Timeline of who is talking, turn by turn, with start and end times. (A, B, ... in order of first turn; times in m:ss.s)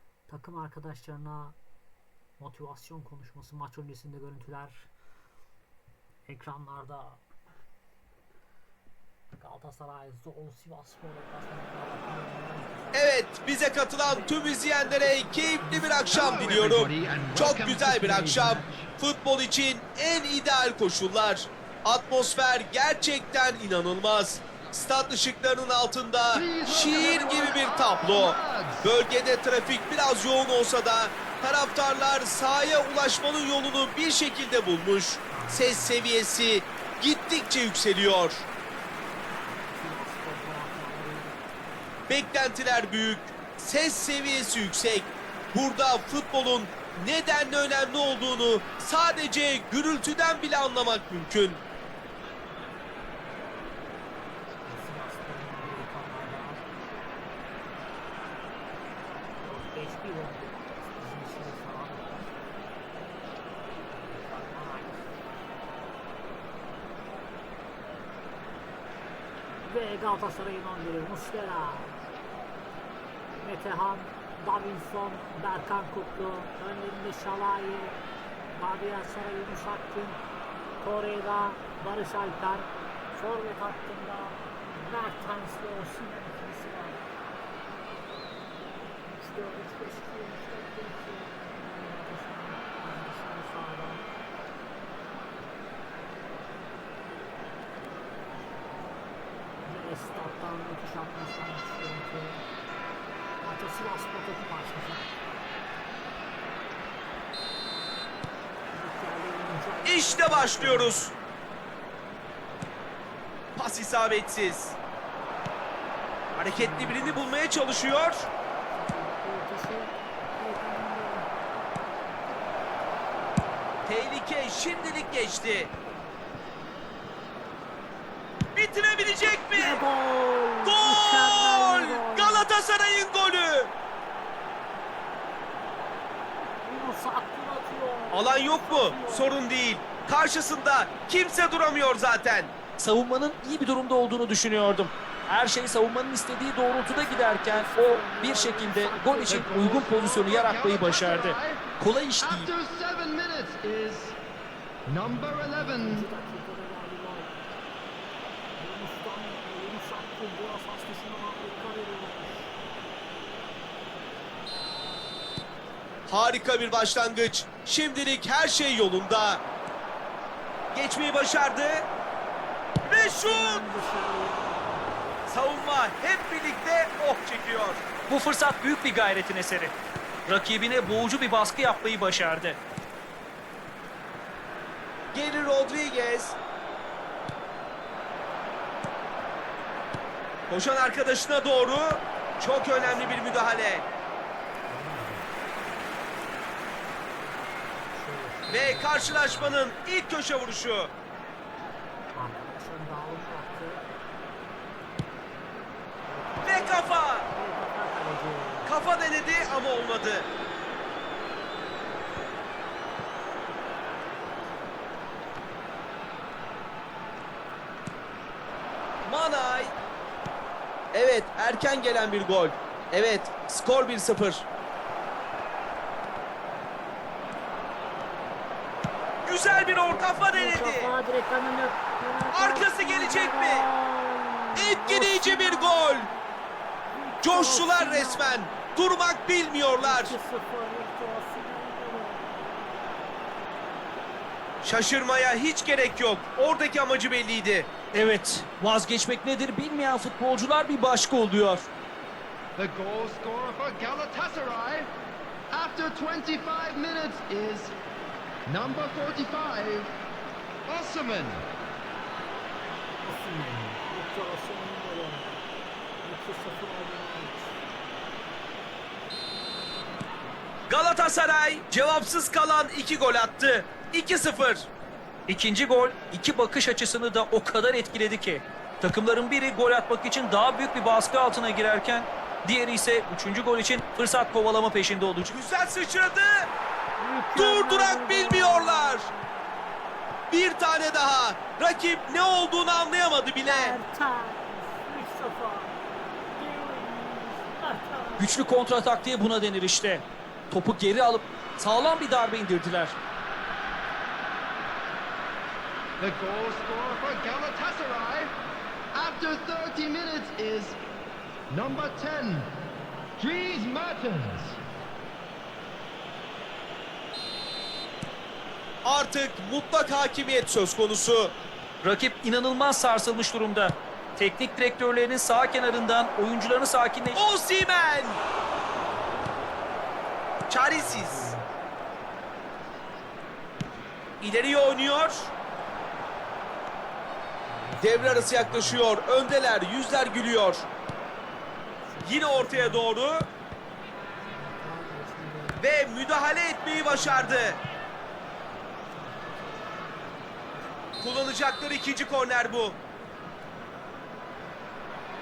0:00.3-0:01.6 A
0:02.4-0:04.9 A
0:06.2-0:07.2 A
0:09.3-0:13.2 A
0:12.9-0:38.4 B
0:14.0-0:17.2 A
0:16.1-0:18.9 C
0:26.3-0:28.9 C
0:35.3-0:36.1 A
0:39.5-0:41.4 A
0:42.1-0:51.6 B
0:54.6-0:56.6 A
0:59.4-1:02.3 A
1:03.9-1:05.2 A
1:09.6-1:12.0 A
1:13.4-1:18.0 A
1:18.5-1:20.2 A
1:20.8-1:27.0 A
1:29.2-1:34.0 A
1:39.6-1:42.4 A
1:43.4-1:45.1 A
1:48.7-1:51.1 A
1:49.8-1:51.1 B
1:53.6-1:54.8 B
1:56.3-1:57.3 A
1:56.4-1:58.3 B
1:58.7-2:01.3 A
2:03.9-2:05.7 B
2:08.6-2:09.8 B
2:09.3-2:12.5 A
2:10.6-2:13.7 B
2:16.6-2:19.4 A
2:18.1-2:22.5 B
2:22.8-2:32.5 D
2:26.9-2:29.7 A
2:29.3-2:31.6 C
2:32.2-2:34.2 C
2:34.9-2:36.1 C
2:35.2-2:37.3 A
2:38.6-2:42.5 A
2:46.1-2:49.4 B
2:50.7-2:51.9 B
2:52.8-2:55.0 A
2:52.9-2:53.6 B
2:55.3-2:57.8 B
2:58.1-2:59.7 D
3:00.3-3:02.6 D
3:05.1-3:06.4 B
3:10.5-3:13.8 B
3:12.8-3:13.6 A
3:14.7-3:15.3 A
3:17.9-3:19.6 A
3:18.5-3:20.9 B
3:22.1-3:23.9 A
3:26.0-3:28.7 A
3:26.4-3:27.3 B
3:28.6-3:30.3 B
3:39.1-3:39.7 B
3:40.9-3:44.4 B
3:49.2-3:50.9 B
3:49.4-3:56.2 A
3:52.3-3:53.6 B
3:54.6-3:56.1 B
3:56.9-3:58.5 A
3:57.2-4:00.1 B
3:59.8-4:02.3 A
4:04.6-4:07.7 B
4:07.9-4:11.7 D
4:12.6-4:14.9 C
4:15.5-4:17.7 C
4:18.5-4:19.9 C
4:20.7-4:21.4 C
4:23.0-4:25.5 A
4:26.0-4:27.6 A
4:30.7-4:34.7 B
4:35.3-4:45.4 D
4:45.3-4:46.5 B
4:47.0-4:49.6 A
4:47.4-4:49.1 B
4:50.3-4:53.8 B
4:53.4-4:55.8 A
4:56.3-4:58.4 A
4:58.2-5:03.0 D
5:06.0-5:08.3 C
5:08.9-5:10.8 C
5:11.5-5:12.5 C
5:13.2-5:14.6 C
5:18.8-5:21.3 B
5:21.8-5:27.2 D
5:27.2-5:28.2 B
5:30.5-5:31.3 B
5:30.7-5:31.5 A
5:34.2-5:35.3 B
5:37.4-5:38.8 A
5:37.8-5:40.7 B
5:41.8-5:42.9 A
5:42.0-5:43.3 B
5:44.2-5:45.7 A
5:45.6-5:47.6 B
5:46.8-5:47.7 A
5:48.9-5:51.4 A
5:51.0-5:52.8 B